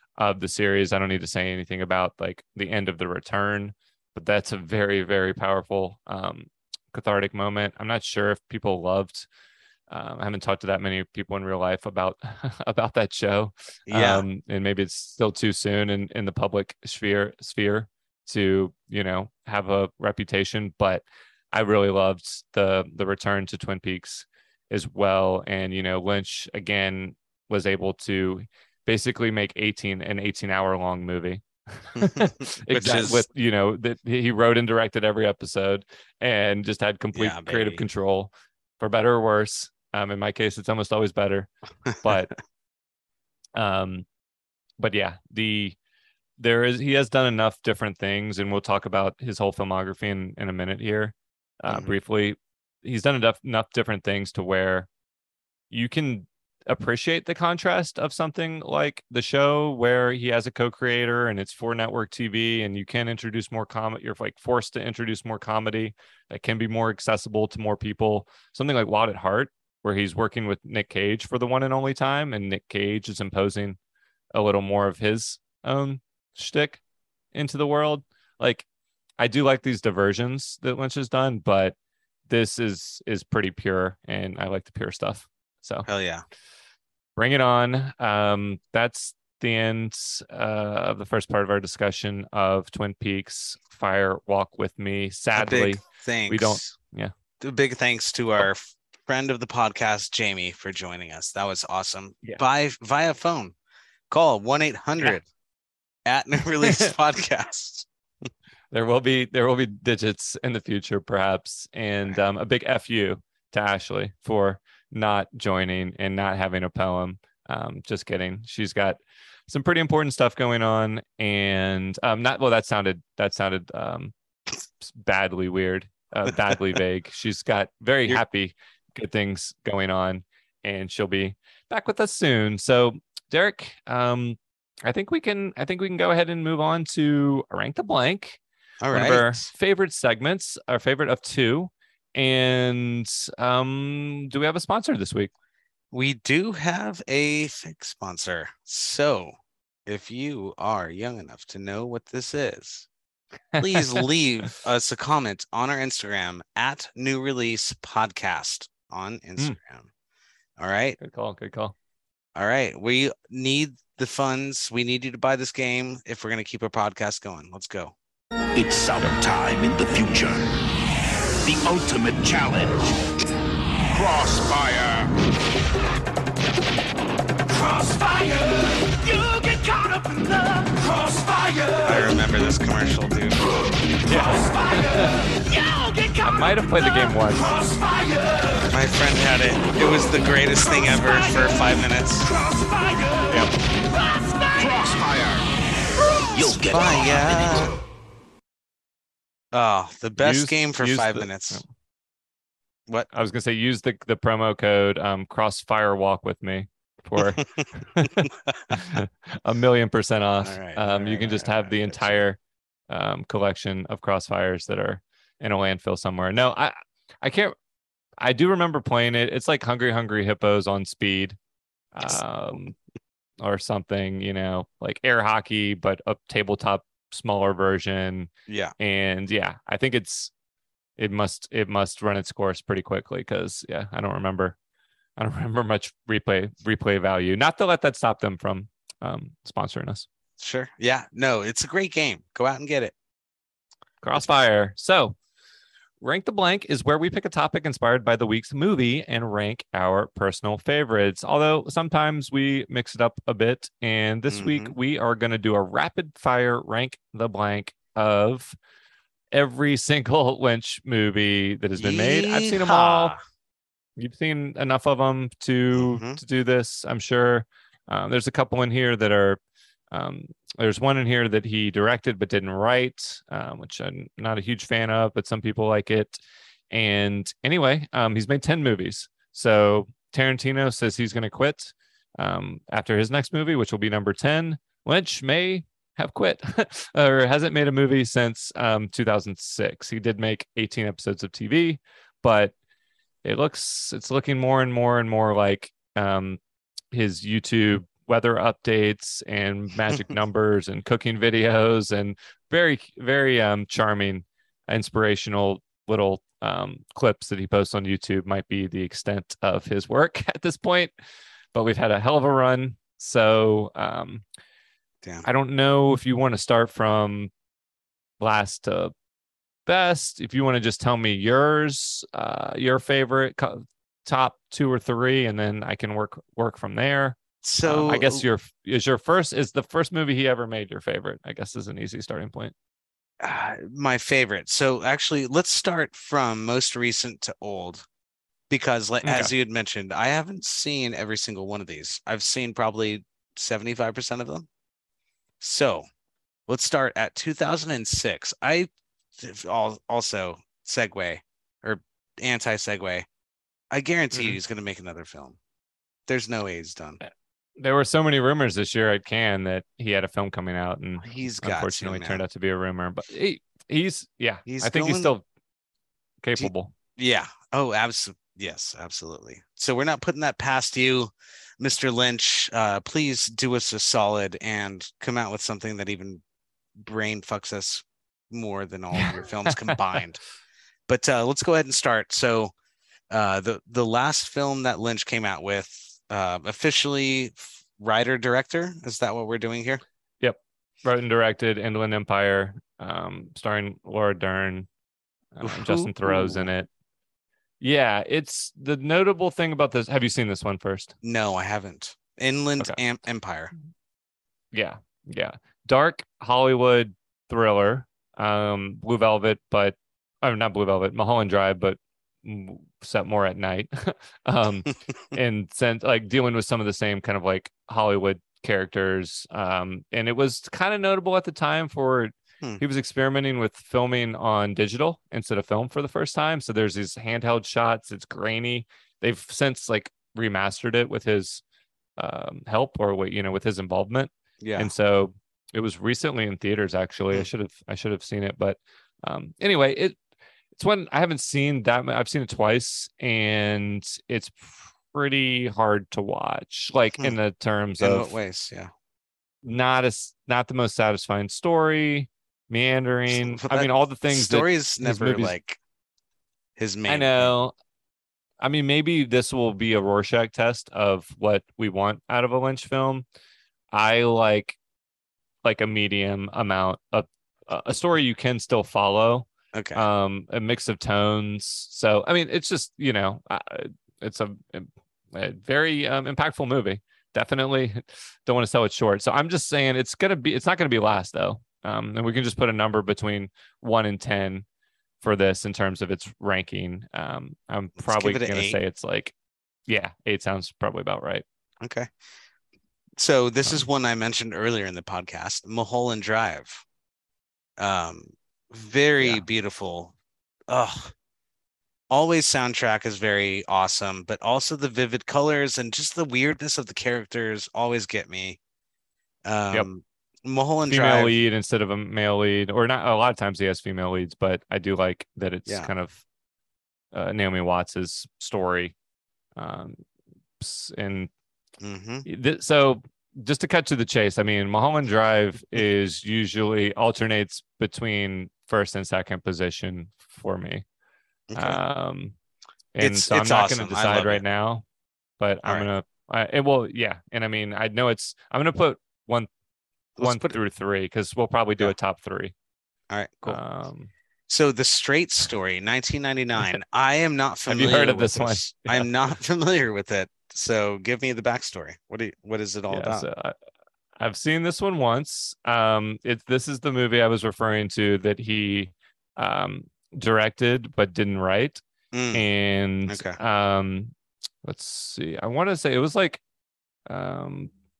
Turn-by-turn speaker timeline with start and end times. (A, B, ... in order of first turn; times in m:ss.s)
0:00.2-0:09.3 A
0:09.9-0:41.5 A
0:13.9-0:14.2 B
0:32.0-0:33.3 B
0:37.1-0:37.8 B
0:42.0-0:42.3 A
0:43.6-0:44.0 A
0:44.8-0:45.8 A
0:46.4-0:54.9 A
0:51.7-0:52.0 B
0:55.7-1:13.8 A
1:14.3-1:16.8 A
1:17.3-1:18.6 A
1:19.2-1:21.8 A
1:22.3-1:25.9 A
1:25.8-1:26.2 B
1:27.2-1:37.1 A
1:35.3-1:36.6 B
1:37.4-1:43.5 B
1:44.1-1:45.2 B
1:46.0-1:47.9 B
1:46.7-1:46.9 A
1:48.7-2:04.1 A
2:04.8-2:18.4 A
2:18.8-2:19.5 B
2:18.9-2:25.3 A
2:25.9-2:32.9 B
2:33.5-2:34.1 A
2:33.6-2:39.9 B
2:40.6-2:41.0 B
2:41.0-2:41.7 A
2:42.3-2:47.9 B
2:48.5-2:50.4 C
2:51.4-2:53.0 C
2:53.9-2:55.2 C
2:57.5-3:02.1 C
3:01.8-3:03.4 B
3:04.0-3:05.2 A
3:04.1-3:08.6 C
3:06.2-3:07.5 A
3:08.7-3:12.3 B
3:10.6-3:11.6 C
3:12.3-3:17.8 C
3:16.4-3:17.8 B
3:19.5-3:21.6 B
3:20.2-3:21.6 A
3:23.1-3:27.4 A
3:27.2-3:28.8 B
3:28.0-3:37.5 A
3:30.4-3:32.2 B
3:38.2-3:41.4 A
3:41.9-3:42.7 A
3:43.4-3:50.3 A
3:48.5-3:48.7 B
3:51.0-3:54.6 A
3:55.2-4:00.1 A
4:00.4-4:02.9 B
4:04.0-4:05.2 A
4:06.0-4:18.6 A
4:14.3-4:14.8 B
4:19.3-4:23.1 A
4:21.8-4:23.2 B
4:24.0-4:29.4 A
4:25.7-4:26.2 B
4:29.9-4:52.5 A
4:53.2-4:56.4 A
4:56.9-5:10.9 A
5:11.5-5:14.2 A
5:15.2-5:17.3 A
5:18.2-5:18.9 A
5:19.6-5:32.5 A
5:27.4-5:28.2 B
5:33.2-5:37.8 B
5:38.5-5:44.5 B
5:39.0-5:39.3 A
5:45.4-5:45.8 B
5:46.5-5:53.0 B
5:53.7-5:55.4 B
5:54.1-5:54.4 A
5:56.1-5:57.0 B
5:57.0-6:05.2 A
6:01.0-6:02.2 B
6:04.4-6:05.1 B
6:06.2-6:06.7 A
6:06.4-6:16.2 B
6:16.8-6:20.2 B
6:18.9-6:19.8 A
6:20.9-6:22.5 B
6:23.1-6:29.8 B
6:30.2-6:34.7 A
6:35.3-6:36.7 A
6:35.4-6:36.5 B
6:37.6-6:40.9 A
6:41.0-6:43.5 B
6:44.5-7:11.4 A
7:12.0-7:20.0 A
7:14.4-7:14.7 B
7:20.6-7:28.2 A
7:27.8-7:28.7 B
7:29.4-7:35.4 A
7:33.1-7:35.6 B
7:36.6-7:37.3 B
7:36.9-7:37.5 A
7:38.4-7:43.0 A
7:43.7-7:44.6 A
7:45.4-8:04.4 A
7:49.5-7:49.8 B
8:05.0-8:09.1 A
8:07.8-8:08.6 B
8:09.7-8:11.2 A
8:11.6-8:11.9 B
8:13.0-8:16.6 B
8:17.6-8:19.9 B
8:20.5-8:20.9 B
8:21.9-8:28.4 B
8:29.2-8:31.1 B
8:30.7-8:36.0 A
8:36.9-8:38.7 A
8:39.4-8:39.8 A
8:40.4-8:41.1 A
8:41.6-8:42.0 B
8:42.0-8:50.6 A
8:51.3-8:51.6 B
8:51.4-8:52.1 A
8:52.7-8:54.6 A
8:52.8-8:54.2 B
8:55.2-8:59.3 A
9:00.0-9:00.4 B
9:00.0-9:02.3 A
9:02.9-9:03.4 B
9:03.2-9:03.9 A
9:04.3-9:13.0 B
9:07.5-9:08.9 A
9:12.7-9:13.4 A
9:14.0-9:21.6 A
9:21.9-9:22.2 B
9:22.1-9:23.9 A
9:22.9-9:23.2 B
9:24.4-9:26.2 A
9:26.9-9:27.5 A